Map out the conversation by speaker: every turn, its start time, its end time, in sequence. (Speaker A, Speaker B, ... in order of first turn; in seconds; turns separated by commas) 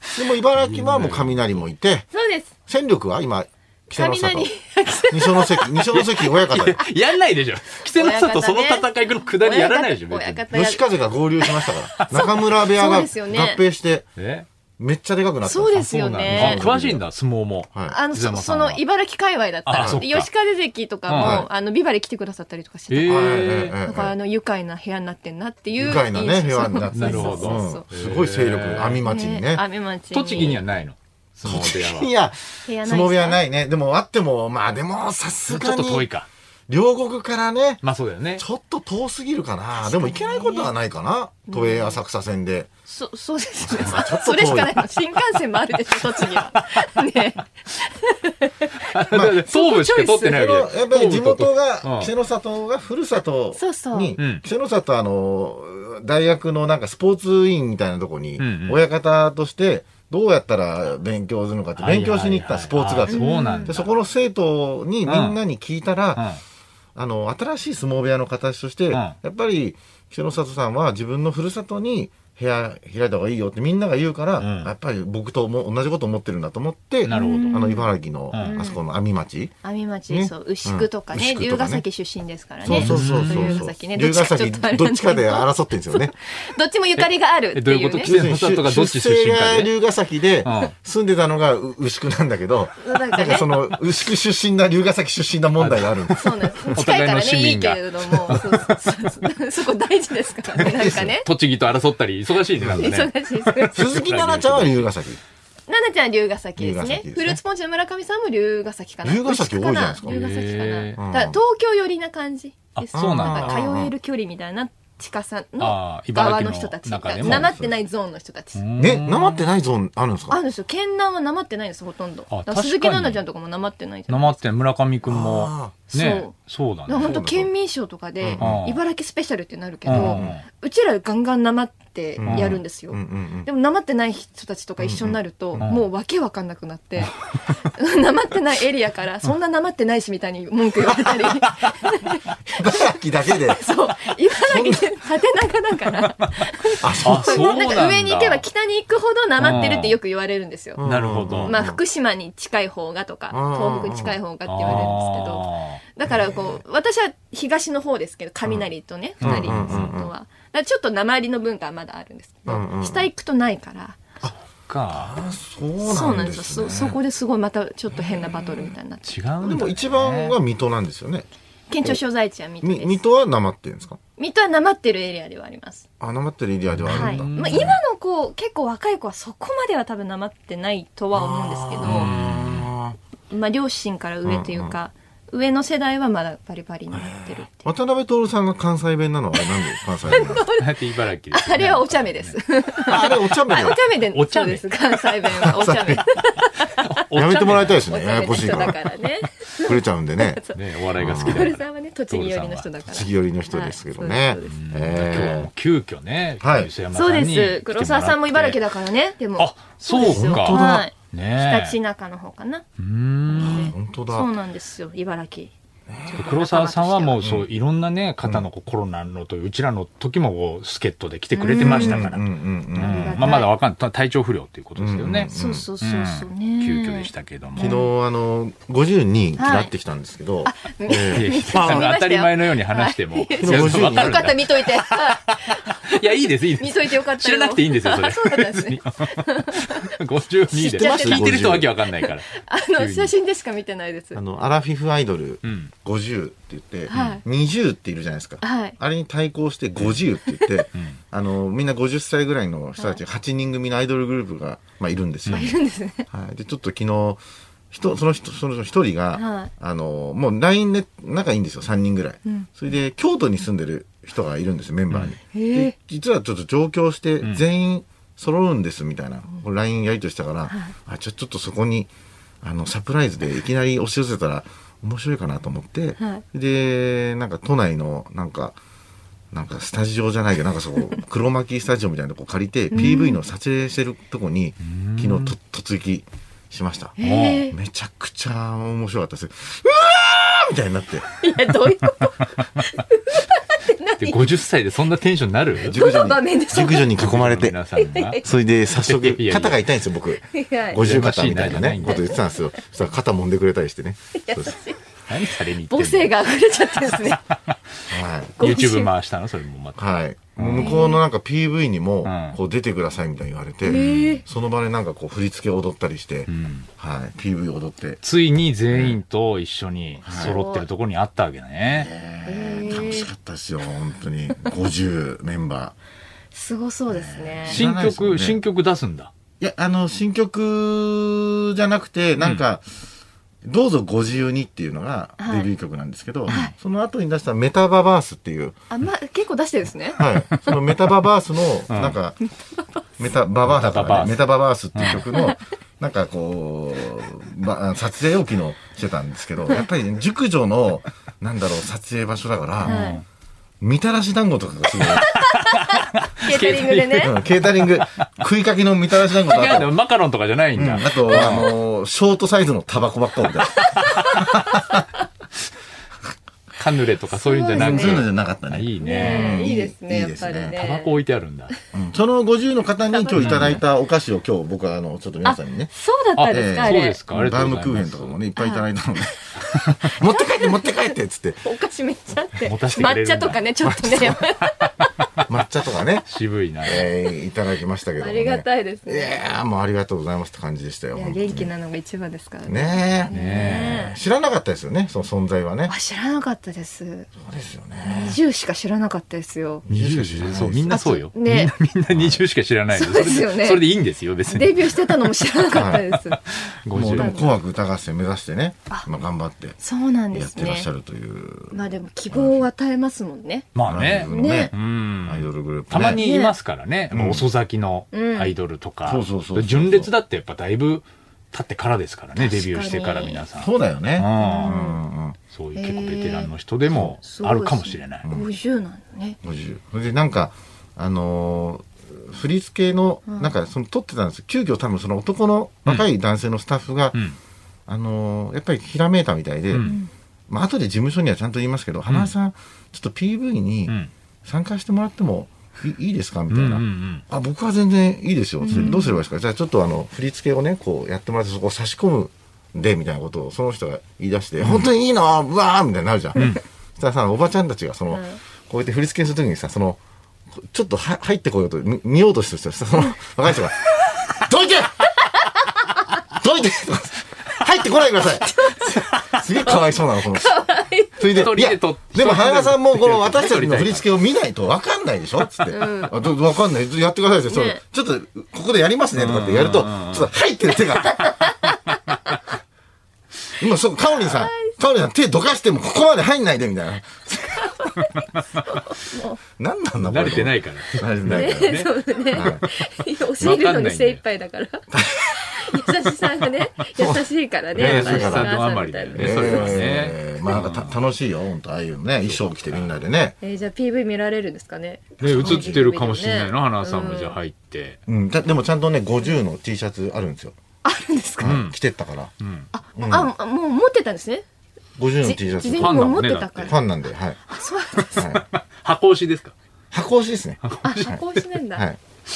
Speaker A: 0.1-2.1, Speaker B: 0.6-1.6, Speaker C: 2.1-2.5, Speaker A: 2.7-4.5, Speaker C: 3.9-6.1, Speaker A: 5.1-6.8, Speaker B: 6.5-10.4, Speaker C: 7.8-10.8, Speaker A: 10.5-14.1, Speaker C: 11.4-13.6, Speaker B: 11.9-12.2, Speaker B: 14.2-14.5, Speaker A: 14.8-17.1, Speaker C: 15.4-16.6, Speaker B: 16.3-18.8, Speaker C: 17.9-27.9, Speaker B: 19.6-20.3, Speaker A: 19.7-20.0, Speaker B: 21.1-21.4, Speaker A: 21.2-21.5, Speaker B: 22.9-23.8, Speaker A: 23.0-24.1, Speaker A: 25.8-29.6, Speaker B: 26.9-29.1, Speaker C: 29.0-30.6, Speaker B: 30.1-32.1, Speaker A: 31.4-36.1, Speaker C: 32.6-33.4, Speaker B: 35.5-36.3, Speaker A: 36.7-37.8, Speaker B: 37.8-38.4, Speaker A: 38.4-42.7, Speaker C: 39.8-40.7, Speaker C: 41.5-42.0, Speaker C: 42.9-50.5, Speaker A: 43.6-44.8, Speaker B: 45.9-46.9, Speaker B: 48.8-52.1, Speaker A: 49.1-49.5, Speaker A: 50.2-66.3, Speaker C: 53.6-54.2, Speaker B: 54.2-54.4, Speaker B: 58.4-58.8, Speaker B: 61.8-63.9, Speaker C: 63.1-63.8, Speaker B: 65.1-65.4, Speaker B: 66.2-66.4, Speaker A: 67.0-79.6, Speaker B: 74.4-74.7, Speaker B: 77.0-77.6, Speaker C: 77.1-78.8, Speaker B: 78.3-78.6, Speaker C: 79.6-88.1, Speaker A: 80.1-81.8, Speaker A: 82.6-86.1, Speaker B: 82.7-83.6, Speaker B: 87.0-89.7, Speaker A: 88.0-96.8, Speaker B: 90.4-90.8, Speaker C: 92.8-93.8, Speaker B: 95.6-96.2, Speaker C: 96.2-101.3, Speaker B: 96.7-99.0, Speaker B: 100.6-104.9, Speaker A: 100.6-101.1, Speaker C: 102.6-104.0, Speaker A: 103.7-105.2, Speaker C: 105.7-118.6, Speaker A: 106.6-107.4, Speaker A: 109.0-110.2, Speaker B: 110.0-111.0, Speaker A: 111.0-111.4, Speaker B: 112.8-113.5, Speaker A: 112.9-113.9, Speaker B: 115.6-117.5, Speaker A: 117.2-117.7, Speaker B: 118.5-119.5, Speaker A: 118.8-120.4, Speaker C: 120.3-124.4, Speaker B: 122.3-123.2, Speaker B: 124.1-127.3, Speaker A: 125.1-125.8, Speaker C: 125.9-126.3, Speaker C: 126.9-142.2, Speaker A: 127.0-127.5, Speaker A: 128.2-128.6, Speaker B: 128.4-128.8, Speaker B: 129.8-130.4, Speaker A: 129.9-130.4, Speaker A: 132.2-133.5, Speaker B: 132.3-132.6, Speaker A: 134.8-135.8, Speaker B: 135.6-135.8, Speaker A: 142.5-143.6, Speaker C: 143.5-150.8, Speaker A: 144.4-144.9, Speaker A: 146.8-147.8, Speaker B: 147.0-148.4, Speaker B: 149.4-150.0, Speaker A: 150.8-151.8, Speaker B: 150.8-151.6, Speaker C: 151.5-164.1, Speaker A: 153.3-154.9, Speaker B: 154.5-155.8, Speaker A: 156.1-156.6, Speaker B: 159.2-159.9, Speaker A: 159.2-160.1, Speaker A: 162.5-163.1, Speaker B: 164.7-165.2, Speaker A: 164.9-167.0, Speaker C: 165.8-169.1, Speaker A: 167.9-168.7, Speaker B: 169.1-170.4, Speaker A: 169.4-171.3, Speaker C: 171.7-173.0, Speaker A: 172.6-174.0, Speaker C: 174.2-175.8, Speaker A: 176.0-177.8, Speaker B: 176.7-177.8, Speaker C: 176.9-182.1, Speaker A: 181.1-183.0, Speaker B: 181.8-182.7, Speaker C: 183.3-187.7, Speaker A: 184.2-184.8, Speaker A: 186.9-190.4, Speaker C: 189.4-197.0, Speaker B: 190.6-192.4, Speaker A: 192.9-193.8, Speaker B: 194.1-194.9, Speaker A: 195.3-196.1, Speaker B: 196.8-197.9, Speaker A: 197.1-198.8, Speaker C: 197.9-204.6, Speaker A: 199.6-200.4, Speaker B: 200.6-202.7, Speaker A: 201.0-201.6, Speaker A: 202.8-205.5, Speaker B: 204.5-208.6, Speaker A: 206.4-206.7, Speaker C: 206.9-212.6, Speaker B: 209.4-211.8, Speaker A: 210.0-210.9, Speaker B: 212.8-213.7, Speaker C: 213.3-215.5, Speaker A: 213.3-214.3, Speaker A: 215.9-216.2, Speaker C: 216.1-217.2, Speaker B: 216.2-222.2, Speaker A: 217.2-217.5, Speaker C: 221.3-222.1, Speaker A: 221.5-223.2, Speaker C: 222.8-223.5, Speaker B: 222.8-225.3, Speaker A: 224.8-225.7, Speaker C: 225.3-227.9, Speaker B: 225.8-227.8, Speaker A: 227.6-231.9, Speaker C: 229.4-229.7, Speaker C: 230.4-239.8, Speaker B: 231.1-243.1, Speaker A: 233.4-234.3, Speaker A: 240.5-241.7, Speaker C: 240.6-244.2, Speaker A: 244.2-255.6, Speaker B: 245.4-245.7, Speaker C: 246.9-247.2, Speaker B: 246.9-247.2, Speaker C: 248.4-248.8, Speaker C: 250.3-250.7, Speaker B: 250.7-251.0, Speaker C: 255.3-256.1, Speaker A: 256.1-271.9, Speaker C: 259.1-259.5, Speaker C: 265.3-265.7, Speaker C: 270.5-270.7, Speaker A: 272.4-278.6, Speaker C: 276.0-276.2, Speaker A: 279.3-286.9, Speaker C: 282.7-283.2, Speaker B: 284.6-285.3, Speaker C: 287.0-287.6, Speaker B: 287.0-287.5, Speaker A: 287.5-291.1, Speaker C: 291.2-294.4, Speaker B: 294.0-295.8, Speaker A: 295.7-297.6, Speaker C: 295.7-296.9, Speaker B: 297.0-298.2, Speaker C: 297.7-298.3, Speaker A: 298.2-304.6, Speaker B: 298.7-299.6, Speaker C: 300.2-300.8, Speaker B: 300.8-302.1, Speaker C: 301.8-302.6, Speaker C: 304.1-304.8, Speaker B: 305.1-306.2, Speaker C: 305.7-307.2, Speaker A: 307.9-308.4, Speaker C: 308.4-308.9, Speaker B: 308.4-309.9, Speaker A: 309.8-318.0, Speaker B: 310.4-310.8, Speaker C: 310.5-311.0, Speaker B: 312.0-312.4, Speaker C: 313.6-314.2, Speaker B: 316.3-316.7, Speaker B: 318.0-321.9, Speaker A: 318.7-319.0, Speaker C: 320.0-320.7, Speaker A: 320.1-320.4, Speaker A: 321.7-325.7, Speaker C: 322.2-323.1, Speaker C: 326.3-327.6, Speaker A: 326.9-328.4, Speaker B: 327.5-329.1, Speaker A: 329.4-332.6, Speaker A: 333.4-338.6, Speaker C: 335.2-335.5, Speaker C: 336.3-336.6, Speaker C: 338.7-340.0, Speaker A: 340.0-342.2, Speaker B: 340.0-340.5, Speaker B: 341.7-342.0, Speaker A: 343.0-353.0, Speaker B: 343.4-345.0, Speaker B: 352.6-353.0, Speaker C: 352.6-353.0, Speaker A: 353.6-355.2, Speaker B: 355.0-357.1, Speaker C: 355.0-357.1, Speaker A: 357.0-359.7, Speaker B: 359.3-361.5, Speaker A: 360.6-364.8, Speaker B: 363.6-364.2, Speaker B: 366.6-369.4, Speaker C: 367.2-368.1, Speaker A: 367.5-370.6, Speaker C: 368.8-371.0, Speaker B: 370.5-371.5, Speaker A: 371.7-375.7, Speaker C: 372.9-373.6, Speaker B: 373.1-373.6, Speaker C: 375.2-377.0, Speaker B: 376.2-378.1, Speaker A: 376.3-381.5, Speaker C: 378.4-378.7, Speaker C: 380.1-384.9, Speaker B: 382.5-383.4, Speaker A: 383.6-384.2, Speaker A: 385.3-386.1, Speaker B: 386.1-386.9, Speaker A: 386.6-391.5, Speaker C: 388.0-389.3, Speaker C: 390.9-394.0, Speaker A: 392.4-395.7, Speaker B: 393.1-393.9, Speaker C: 395.7-397.1, Speaker A: 397.2-398.2, Speaker C: 397.8-399.7, Speaker B: 399.7-405.1, Speaker A: 399.7-400.8, Speaker C: 400.7-401.6, Speaker A: 401.9-402.2, Speaker C: 402.7-403.7, Speaker C: 404.3-407.4, Speaker A: 405.5-405.9, Speaker B: 406.6-407.2, Speaker A: 406.7-409.6, Speaker C: 409.6-410.7, Speaker A: 410.1-411.6, Speaker C: 411.5-413.5, Speaker A: 412.1-412.5, Speaker B: 413.6-424.5, Speaker A: 413.6-416.0, Speaker C: 414.0-414.5, Speaker C: 415.8-416.3, Speaker A: 416.9-417.3, Speaker C: 417.9-418.4, Speaker A: 418.9-419.9, Speaker C: 422.2-423.3, Speaker A: 423.4-425.2, Speaker C: 424.2-424.8, Speaker B: 425.3-428.1, Speaker C: 425.6-429.2, Speaker A: 429.2-437.0, Speaker C: 433.1-433.3, Speaker A: 437.7-459.8, Speaker B: 439.5-439.8, Speaker C: 439.6-439.9, Speaker B: 446.3-447.0, Speaker C: 448.4-449.0, Speaker B: 448.5-448.8, Speaker B: 454.4-454.7, Speaker C: 457.9-458.2, Speaker A: 460.4-465.0, Speaker A: 466.1-481.3, Speaker C: 468.4-471.3, Speaker B: 471.1-473.9, Speaker C: 475.5-475.9, Speaker C: 477.3-477.6, Speaker B: 478.9-480.1, Speaker C: 480.9-481.6, Speaker A: 483.4-487.4, Speaker C: 483.9-484.6, Speaker C: 487.2-489.2, Speaker A: 489.4-492.4, Speaker B: 489.8-491.7, Speaker C: 491.1-499.6, Speaker B: 493.2-494.0, Speaker A: 494.7-495.5, Speaker A: 496.8-498.4, Speaker B: 497.6-500.8, Speaker A: 498.9-503.2, Speaker B: 502.1-502.8, Speaker C: 503.2-507.2, Speaker A: 505.0-505.6, Speaker B: 505.0-507.8, Speaker A: 507.9-510.4, Speaker C: 510.6-511.4, Speaker A: 511.2-512.1, Speaker B: 511.2-511.6, Speaker B: 512.2-512.5, Speaker C: 512.5-514.2, Speaker A: 512.8-513.1, Speaker A: 514.8-517.2, Speaker C: 515.0-516.6, Speaker B: 515.5-516.5, Speaker C: 517.3-518.1, Speaker A: 518.0-518.2, Speaker B: 518.0-519.3, Speaker A: 519.7-521.0, Speaker B: 520.4-521.2, Speaker C: 520.6-521.7